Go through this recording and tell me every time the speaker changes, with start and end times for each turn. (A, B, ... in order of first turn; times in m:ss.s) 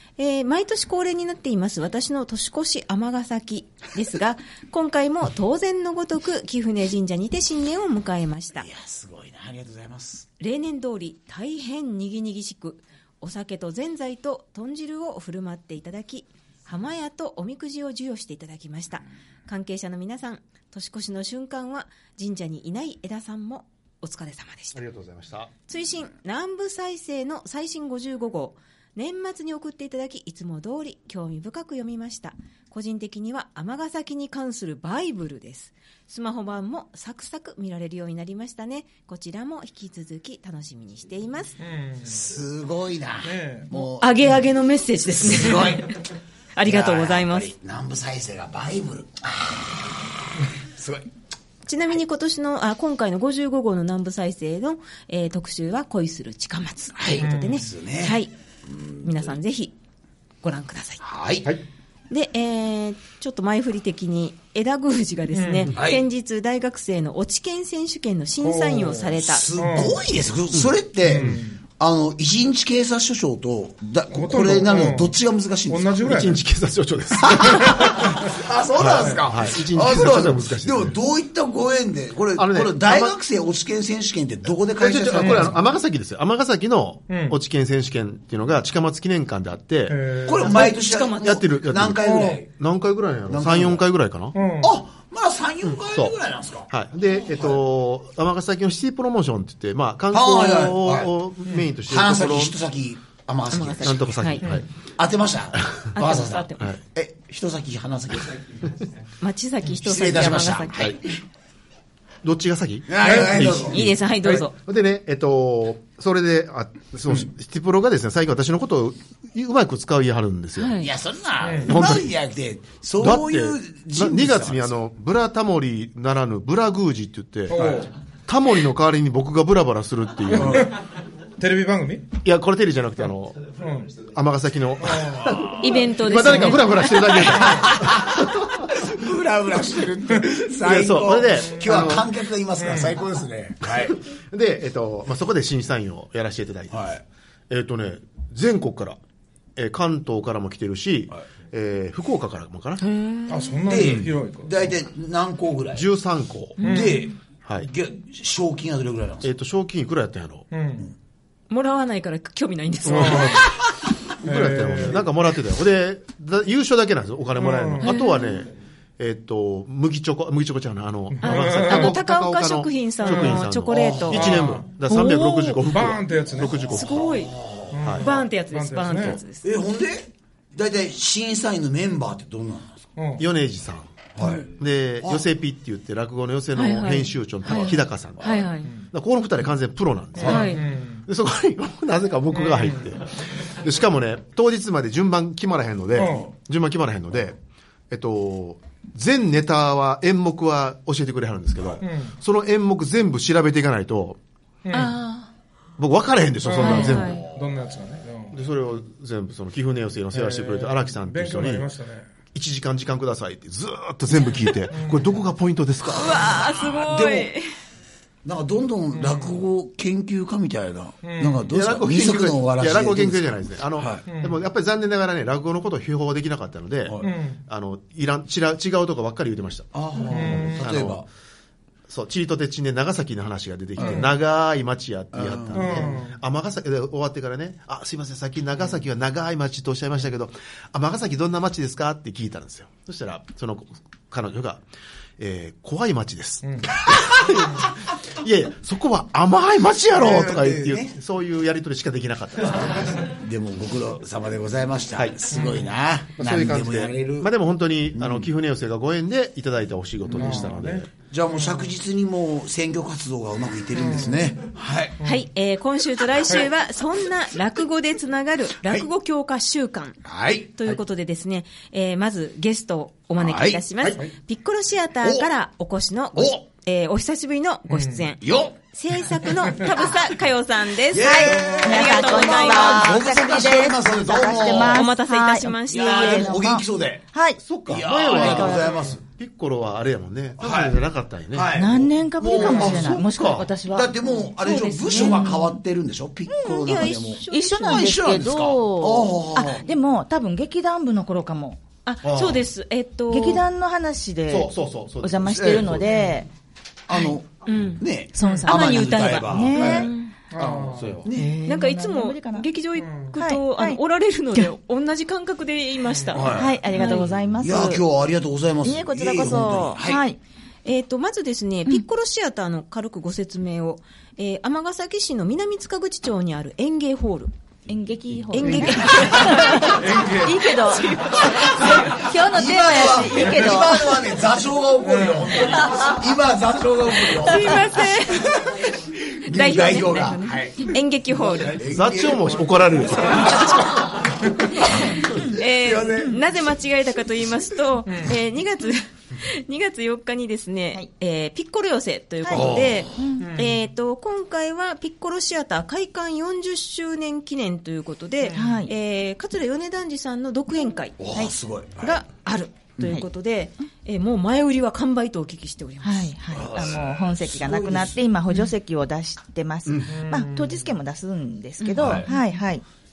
0:00.2-0:08.7 A
0:08.6-0:10.3 B
0:10.4-0:24.8 A
0:24.7-0:25.5 C
0:25.7-0:41.6 A
0:41.6-0:42.2 D
0:42.0-0:44.2 B
0:43.2-0:43.7 D
0:43.7-0:47.5 A
0:45.1-0:46.1 B
0:46.6-0:49.8 B
0:50.6-0:51.0 B
0:51.6-0:58.3 A
0:57.0-0:58.2 B
0:57.2-0:57.6 D
0:59.0-0:59.7 A
1:00.4-1:01.0 A
1:01.0-1:01.5 B
1:02.1-1:09.6 A
1:05.3-1:05.7 D
1:05.7-1:06.0 B
1:08.4-1:10.0 D
1:09.2-1:16.0 B
1:10.5-1:11.4 C
1:11.1-1:11.6 D
1:14.1-1:15.1 D
1:15.7-1:16.4 D
1:16.0-1:18.0 C
1:17.2-1:25.6 B
1:18.8-1:21.0 C
1:22.4-1:23.2 C
1:24.8-1:30.2 C
1:25.2-1:25.5 D
1:27.1-1:27.4 D
1:29.9-1:30.7 D
1:30.2-1:32.5 B
1:30.4-1:31.4 A
1:31.2-1:34.4 C
1:32.0-1:32.4 D
1:33.3-1:33.9 B
1:34.3-1:34.8 D
1:34.6-1:36.7 B
1:35.6-1:36.1 C
1:36.7-1:42.6 C
1:40.1-1:41.1 B
1:41.8-1:44.2 B
1:43.5-1:44.4 A
1:43.8-1:44.6 C
1:45.0-1:48.7 B
1:45.9-1:46.7 A
1:49.2-1:51.0 A
1:49.7-1:51.1 B
1:52.2-2:00.8 C
1:52.9-1:53.8 B
1:53.0-1:53.5 D
1:53.7-1:54.5 A
2:00.6-2:00.9 A
2:00.8-2:04.7 B
2:01.4-2:01.7 D
2:01.6-2:02.1 C
2:03.0-2:07.6 C
2:07.5-2:07.9 D
2:07.5-2:07.8 B
2:08.3-2:10.7 C
2:10.3-2:10.7 B
2:11.4-2:12.1 D
2:12.1-2:18.6 C
2:13.6-2:13.9 D
2:14.9-2:15.3 D
2:15.6-2:17.2 A
2:17.3-2:24.0 B
2:20.6-2:22.1 C
2:22.6-2:23.0 D
2:23.7-2:26.8 C
2:26.7-2:27.0 B
2:27.5-2:29.0 C
2:29.6-2:32.8 C
2:32.8-2:33.6 A
2:33.3-2:34.5 D
2:33.7-2:35.9 B
2:35.7-2:36.6 C
2:36.6-2:39.3 B
2:36.6-2:37.0 D
2:39.2-2:40.5 C
2:40.5-2:40.8 D
2:41.5-2:43.6 A
2:42.8-2:43.5 C
2:42.9-2:43.5 D
2:44.2-2:45.0 D
2:44.2-2:57.2 C
2:47.4-2:48.0 D
2:47.8-2:48.4 A
2:51.1-2:51.9 D
2:51.2-2:54.5 A
2:53.0-2:53.4 D
2:53.7-2:54.3 B
2:54.1-2:56.8 D
2:56.4-2:57.8 B
2:56.7-2:57.3 A
2:57.7-2:59.2 D
2:57.8-2:58.1 C
2:58.0-2:59.5 A
2:59.4-3:02.9 B
3:03.0-3:03.2 D
3:03.2-3:03.9 C
3:04.2-3:04.5 B
3:04.5-3:17.4 C
3:06.5-3:08.7 A
3:10.2-3:10.4 B
3:10.2-3:10.6 A
3:10.2-3:11.0 D
3:12.4-3:12.7 D
3:16.0-3:16.2 D
3:17.9-3:24.2 C
3:21.8-3:22.1 D
3:24.6-3:25.0 D
3:24.7-3:25.3 A
3:25.8-3:27.2 C
3:26.5-3:28.4 D
3:26.6-3:27.2 A
3:27.0-3:27.4 B
3:28.3-3:31.7 C
3:30.1-3:32.0 D
3:32.3-3:36.4 C
3:34.7-3:35.1 D
3:35.9-3:37.4 A
3:36.2-3:37.3 B
3:38.2-3:44.0 B
3:38.9-3:39.4 D
3:41.0-3:41.4 D
3:41.5-3:49.7 C
3:44.1-3:44.4 D
3:47.0-3:47.4 D
3:49.7-3:51.0 B
3:50.1-3:50.6 D
3:50.3-3:51.1 C
3:51.9-4:04.6 C
3:53.8-3:54.1 B
3:53.8-3:54.1 D
3:55.1-3:56.0 B
3:55.5-3:56.2 D
4:05.2-4:13.1 C
4:06.4-4:06.7 D
4:09.9-4:10.9 B
4:13.0-4:17.3 B
4:14.9-4:15.4 C
4:15.3-4:15.7 D
4:16.2-4:20.9 C
4:17.9-4:18.3 B
4:20.1-4:25.0 B
4:20.2-4:21.7 D
4:23.8-4:24.3 D
4:25.0-4:30.0 A
4:30.0-4:30.8 B
4:30.6-4:38.2 A
4:33.2-4:33.6 B
4:35.0-4:35.3 B
4:36.1-4:36.4 B
4:37.7-4:38.0 D
4:38.2-4:39.6 B
4:38.7-4:43.0 A
4:40.9-4:44.8 B
4:41.1-4:47.4 E
4:44.5-4:46.4 A
4:45.7-4:47.0 B
4:47.4-4:51.6 C
4:47.7-4:49.0 B
4:48.0-4:48.7 E
4:50.4-4:50.8 B
4:51.3-4:53.1 B
4:51.5-4:55.5 E
4:52.3-4:53.5 C
4:53.6-4:59.6 B
4:54.4-4:55.3 A
4:56.3-5:01.6 E
4:56.4-4:58.1 A
5:01.8-5:03.4 A
5:02.0-5:02.5 C
5:03.1-5:06.3 E
5:04.3-5:06.0 C
5:05.2-5:05.8 B
5:06.9-5:11.3 B
5:07.4-5:10.1 A
5:08.1-5:09.9 E
5:10.3-5:11.0 D
5:10.7-5:11.0 C
5:11.1-5:12.5 E
5:11.4-5:17.1 A
5:12.8-5:13.2 D
5:13.2-5:13.8 E
5:15.9-5:16.2 D
5:16.1-5:16.6 B
5:16.3-5:17.8 E
5:17.4-5:20.0 B
5:18.6-5:20.2 E
5:20.6-5:27.3 A
5:27.7-5:34.0 E
5:28.3-5:29.8 A
5:28.5-5:29.6 B
5:29.8-5:30.4 D
5:30.6-5:31.4 A
5:31.1-5:46.2 B
5:34.8-5:35.4 D
5:37.1-5:38.5 A
5:39.3-5:41.6 A
5:41.7-5:43.6 C
5:43.2-5:43.5 A
5:44.6-6:01.1 A
5:52.2-5:53.3 E
5:52.3-5:53.0 B
5:53.2-5:53.5 D
5:58.3-5:58.7 E
6:01.0-6:02.0 B
6:01.8-6:06.1 A
6:05.8-6:12.6 E
6:06.3-6:08.0 B
6:09.9-6:10.6 D
6:11.6-6:12.2 A
6:11.8-6:12.1 B